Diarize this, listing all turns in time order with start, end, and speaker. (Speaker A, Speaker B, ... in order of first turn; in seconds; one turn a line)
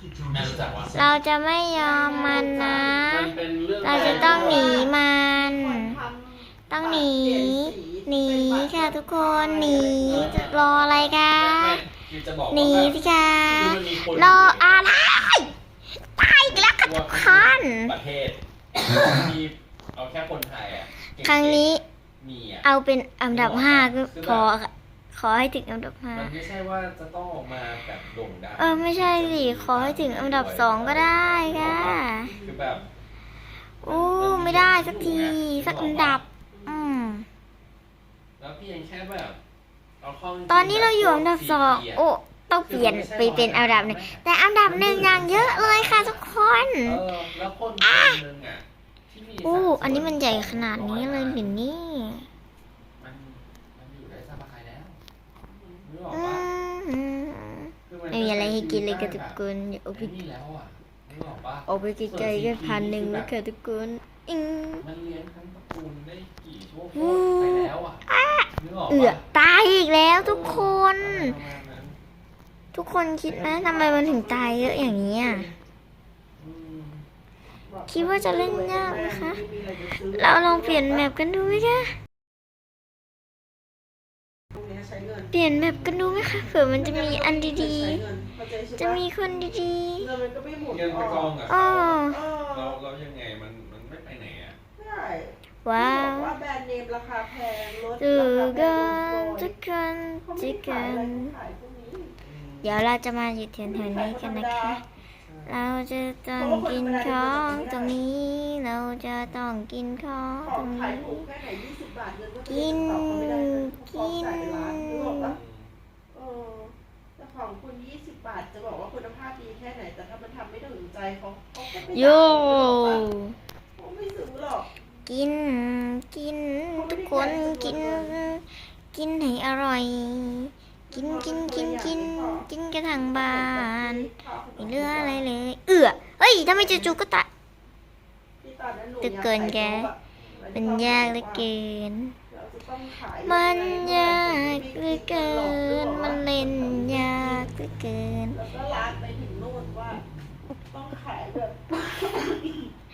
Speaker A: 0.3-1.2
Speaker B: 0.9-6.0
Speaker C: 1.8-3.0
Speaker A: 2.4-4.8
Speaker C: 3.9-10.4
Speaker B: 6.7-11.8
Speaker A: 10.0-14.9
Speaker B: 12.5-15.5
Speaker B: 16.1-17.9
Speaker A: 16.4-22.7
Speaker B: 21.2-21.8
Speaker B: 22.6-26.3
Speaker A: 23.3-24.5
Speaker A: 26.1-32.9
Speaker B: 28.6-32.3
Speaker C: 32.2-32.9
Speaker B: 33.8-37.2
Speaker A: 33.8-36.2
Speaker C: 36.5-37.0
Speaker A: 38.4-39.4
Speaker A: 40.0-42.0
Speaker B: 40.5-47.0
Speaker A: 42.6-51.6
Speaker B: 47.8-48.2
Speaker B: 49.4-52.3
Speaker A: 53.0-55.0
Speaker C: 55.5-55.8
Speaker A: 55.8-56.5
Speaker B: 56.1-60.2
Speaker A: 57.9-59.4
Speaker A: 59.9-63.3
Speaker B: 61.7-64.9
Speaker A: 64.8-68.0
Speaker B: 66.9-71.4
Speaker A: 68.6-69.3
Speaker A: 70.1-72.0
Speaker B: 72.7-75.5
Speaker C: 73.4-75.5
Speaker A: 76.4-77.0
Speaker C: 77.6-81.0
Speaker B: 77.9-79.4
Speaker B: 80.1-82.0
Speaker C: 84.5-85.3
Speaker B: 85.3-88.0
Speaker A: 85.5-86.1
Speaker C: 86.2-89.0
Speaker B: 88.8-90.1
Speaker A: 89.3-89.6
Speaker C: 90.0-91.3
Speaker A: 90.7-94.6
Speaker B: 91.5-92.2
Speaker C: 92.1-92.8
Speaker C: 94.8-99.5
Speaker B: 95.6-96.4
Speaker B: 98.0-101.3
Speaker C: 100.2-102.1
Speaker A: 102.2-102.8
Speaker B: 102.6-104.8
Speaker C: 103.6-104.8
Speaker A: 105.2-105.6
Speaker B: 105.5-111.3
Speaker C: 106.4-108.0
Speaker C: 110.4-115.3
Speaker B: 112.5-115.4
Speaker A: 115.3-115.7
Speaker C: 116.1-123.1
Speaker B: 121.8-123.4
Speaker C: 123.8-124.7
Speaker B: 125.0-137.3
Speaker C: 126.7-128.1
Speaker C: 130.9-135.2
Speaker C: 138.4-141.5
Speaker B: 139.0-139.9
Speaker A: 140.1-140.4
Speaker B: 140.5-142.2
Speaker C: 142.3-147.5
Speaker B: 143.2-148.4
Speaker C: 148.3-150.0
Speaker C: 150.7-152.7